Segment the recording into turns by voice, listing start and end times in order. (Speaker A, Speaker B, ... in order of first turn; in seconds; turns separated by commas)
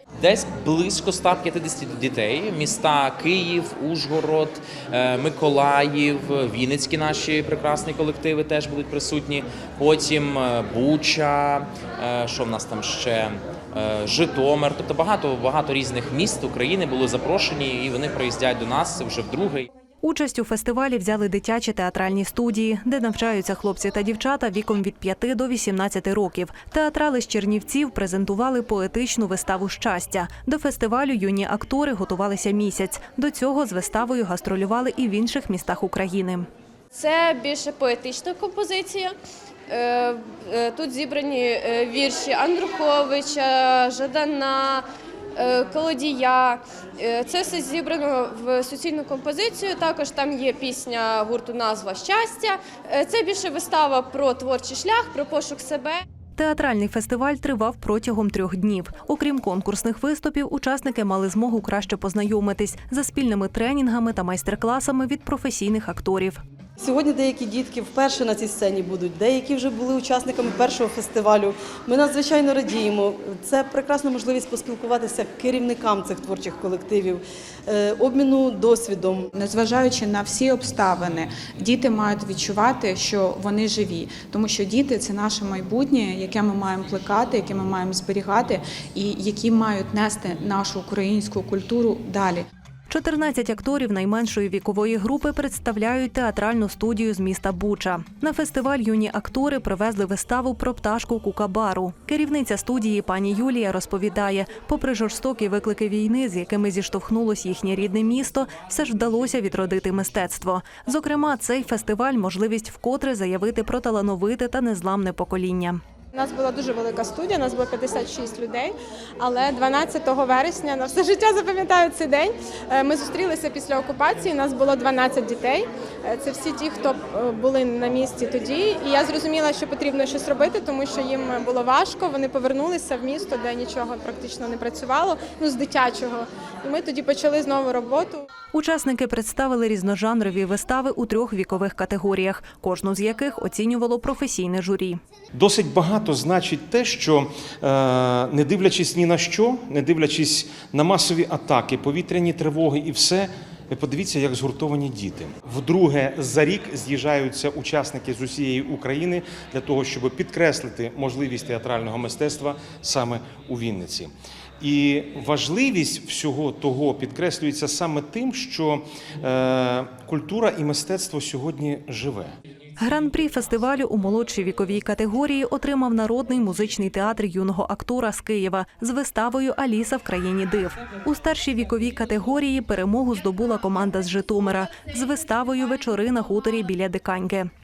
Speaker A: 0.2-19.7, Speaker B: 20.0-36.5, Speaker C: 36.9-39.1, Speaker C: 39.7-56.0, Speaker B: 56.4-66.4, Speaker D: 66.8-79.3, Speaker E: 79.3-92.4, Speaker B: 92.9-115.8, Speaker F: 116.1-138.2, Speaker B: 138.5-145.0, Speaker G: 145.3-172.3, Speaker B: 172.8-187.5